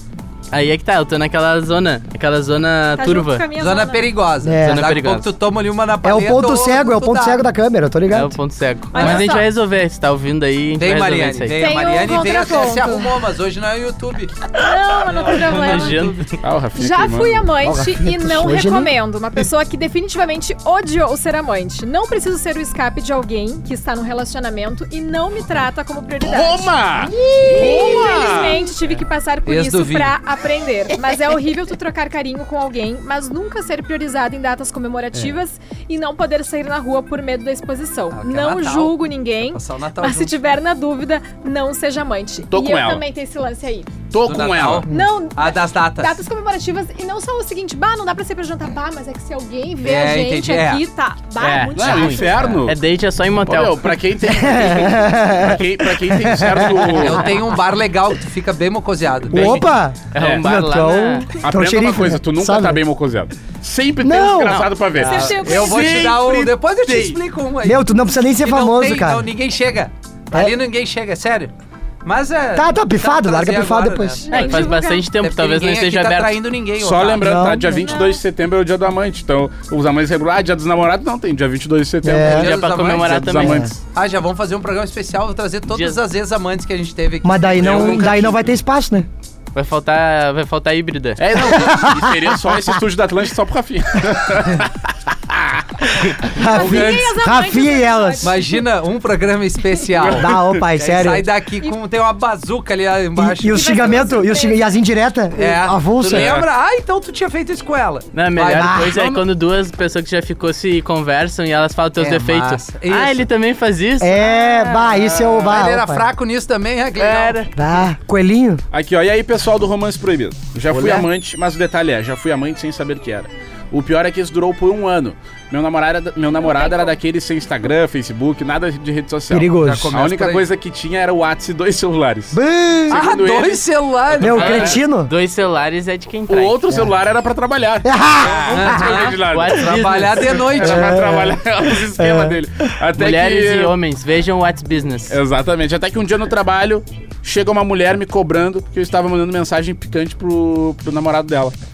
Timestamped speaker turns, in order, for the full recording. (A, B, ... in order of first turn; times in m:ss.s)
0:00.5-0:03.5 A
0:03.0-0:04.0 B
0:03.6-0:07.4 C
0:04.4-0:04.9 D
0:04.6-0:05.3 A
0:06.0-0:08.4 D
0:08.1-0:11.7 A
0:08.9-0:09.5 B
0:09.0-0:09.3 C
0:10.8-0:14.5 C
0:11.6-0:13.1 B
0:14.5-0:16.1 B
0:15.1-0:16.3 C
0:15.5-0:16.4 A
0:16.4-0:17.5 E
0:16.8-0:26.7 B
0:17.6-0:18.9 D
0:26.2-0:28.6 E
0:27.2-0:27.8 D
0:27.4-0:43.9 B
0:27.8-0:28.4 C
0:29.5-0:30.2 C
0:38.1-0:40.3 C
0:42.5-0:43.0 E
0:44.1-0:44.9 E
0:44.2-0:46.2 C
0:44.9-0:52.5 B
0:49.8-0:50.8 C
0:51.4-0:53.9 A
0:51.8-0:52.8 E
0:53.4-0:57.4 E
0:54.2-0:57.3 D
0:56.9-0:59.6 C
0:59.3-1:02.8 D
0:59.3-0:59.6 E
1:00.1-1:01.4 A
1:00.2-1:00.5 E
1:01.4-1:07.2 E
1:04.0-1:04.7 D
1:04.5-1:04.7 A
1:05.0-1:07.8 C
1:05.0-1:06.1 B
1:07.6-1:09.3 D
1:08.4-1:11.5 C
1:12.0-1:17.3 C
1:12.6-1:14.2 D
1:14.3-1:15.1 B
1:14.3-1:16.4 A
1:16.8-1:23.7 E
1:17.2-1:17.9 D
1:17.7-1:18.2 B
1:22.0-1:22.5 D
1:22.2-1:23.3 C
1:22.4-1:23.7 A
1:23.4-1:23.7 D
1:23.8-1:28.4 C
1:25.7-1:26.0 A
1:27.2-1:29.1 D
1:27.6-1:28.4 E
1:29.5-1:31.3 A
1:31.2-1:36.3 E
1:31.4-1:32.8 D
1:36.2-1:38.4 D
1:36.4-1:38.6 B
1:36.5-1:37.1 C
1:38.2-1:44.1 C
1:40.0-1:40.5 E
1:40.2-1:41.3 D
1:43.2-1:46.4 D
1:43.5-1:44.6 B
1:45.4-1:49.0 C
1:46.1-1:46.5 E
1:48.1-1:54.2 A
1:48.6-1:49.0 D
1:52.0-1:53.3 C
1:54.0-1:56.0 D
1:54.9-1:57.5 C
1:55.1-1:55.5 E
1:57.0-1:57.5 E
1:57.6-1:58.6 D
1:58.7-2:14.8 E
2:06.4-2:06.9 B
2:09.3-2:09.9 D
2:09.6-2:10.5 C
2:12.3-2:13.1 D
2:12.9-2:14.8 C
2:14.2-2:15.1 D
2:14.4-2:16.6 A
2:16.3-2:23.8 E
2:17.8-2:19.1 D
2:18.3-2:21.0 C
2:19.2-2:20.5 A
2:20.6-2:22.7 D
2:23.0-2:25.2 A
2:25.1-2:31.6 E